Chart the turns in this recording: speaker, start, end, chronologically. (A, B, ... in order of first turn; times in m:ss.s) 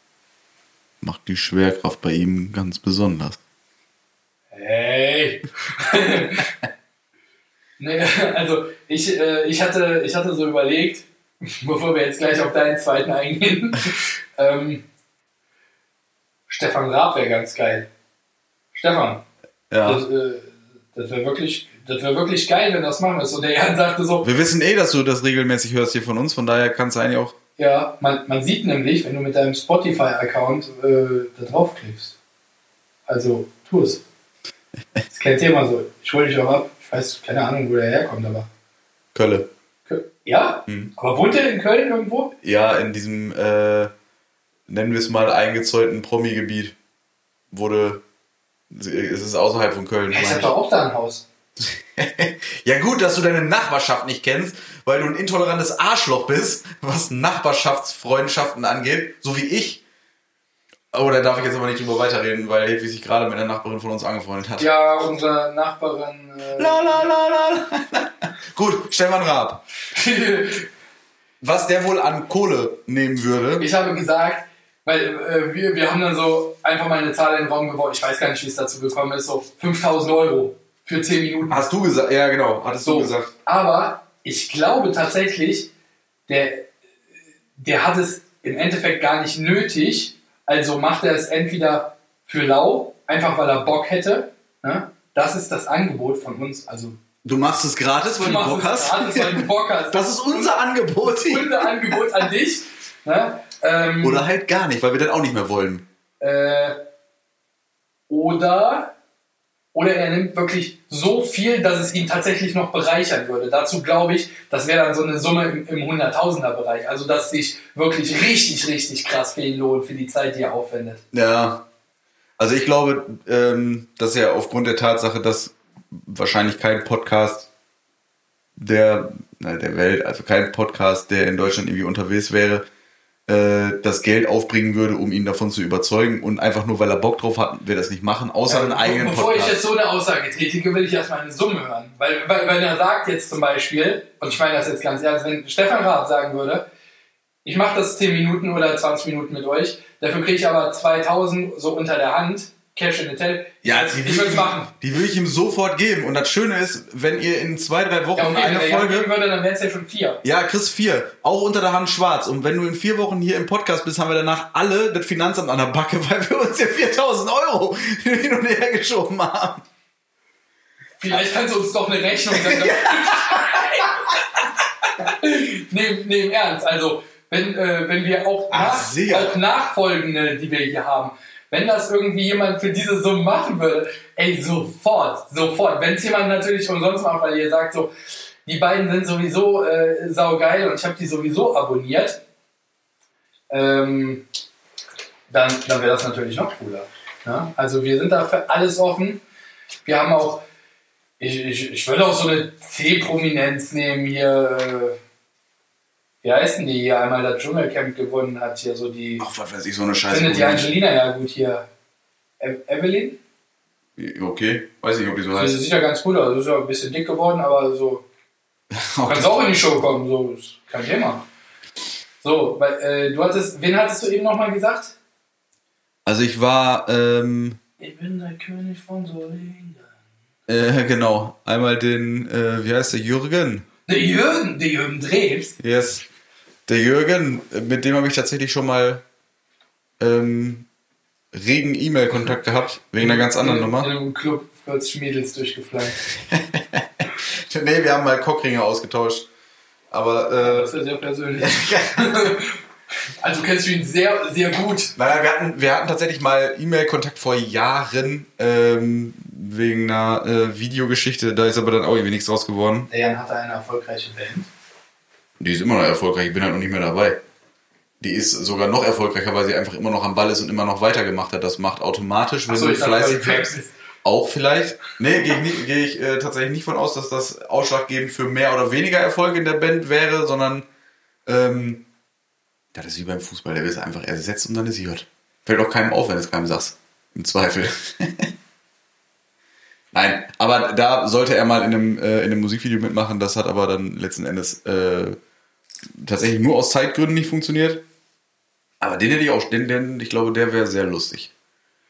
0:01.0-0:03.4 A
0:04.5-0:06.5 B
0:07.8-0:14.8 B
0:16.5-0:17.9 B
0:18.7-0:19.2 B
0:19.7-0:20.0 A
0:19.8-0:24.2 B
0:24.2-0:27.3 A
0:27.6-0:32.2 B
0:33.1-0:34.0 B
0:35.1-0:38.5 B
0:39.1-0:39.5 A
0:39.9-0:42.3 B
0:42.4-0:43.9 A
0:44.7-0:46.8 A
0:47.5-0:48.0 A
0:48.7-0:50.5 A
0:50.1-0:51.2 B
0:51.6-0:59.8 A
1:00.9-1:04.7 A
1:04.6-1:07.1 B
1:06.6-1:09.6 A
1:09.9-1:10.7 B
1:11.4-1:13.7 A
1:13.6-1:21.6 B
1:21.5-1:23.3 A
1:22.8-1:25.7 B
1:26.3-1:26.7 B
1:27.6-1:36.9 B
1:37.2-1:41.9 A
1:38.2-1:44.2 B
1:44.0-1:45.8 A
1:46.2-1:46.8 B
1:48.1-1:48.9 B
1:49.7-2:01.0 B
2:01.1-2:01.6 A
2:02.4-2:07.5 A
2:08.6-2:12.6 A
2:13.3-2:19.6 A
2:18.5-2:26.6 B
2:27.4-2:34.7 B
2:33.6-2:39.1 A
2:38.2-2:40.2 B
2:40.2-2:49.6 A
2:51.0-2:54.4 B
2:52.3-2:53.6 A
2:55.0-3:07.9 B
2:58.5-2:59.3 A
3:08.4-3:12.2 B
3:13.5-3:14.2 B
3:15.3-3:19.2 B
3:19.8-3:20.4 B
3:21.2-3:25.0 B
3:26.2-3:29.2 B
3:29.2-3:30.7 A
3:30.1-3:31.7 B
3:32.4-3:33.2 B
3:34.0-3:35.6 A
3:35.3-3:38.0 B
3:38.7-3:39.4 A
3:39.1-3:41.2 B
3:42.2-3:44.9 B
3:46.0-3:47.6 A
3:47.8-3:49.9 B
3:50.5-3:53.6 A
3:53.9-3:55.6 B
3:55.6-3:56.0 A
3:56.7-3:59.0 A
4:00.0-4:00.7 A
4:01.3-4:03.9 A
4:03.0-4:06.0 B
4:06.1-4:09.3 A
4:09.9-4:10.7 A
4:10.4-4:12.6 B
4:11.4-4:12.3 A
4:13.2-4:14.9 B
4:15.0-4:22.9 A
4:22.9-4:24.5 B
4:25.4-4:27.2 A
4:28.0-4:33.5 A
4:32.5-4:33.7 B
4:34.0-4:40.6 A
4:41.2-4:41.8 A
4:42.7-4:48.3 A
4:49.9-4:55.2 A
4:55.9-4:57.8 A
4:58.8-5:01.3 A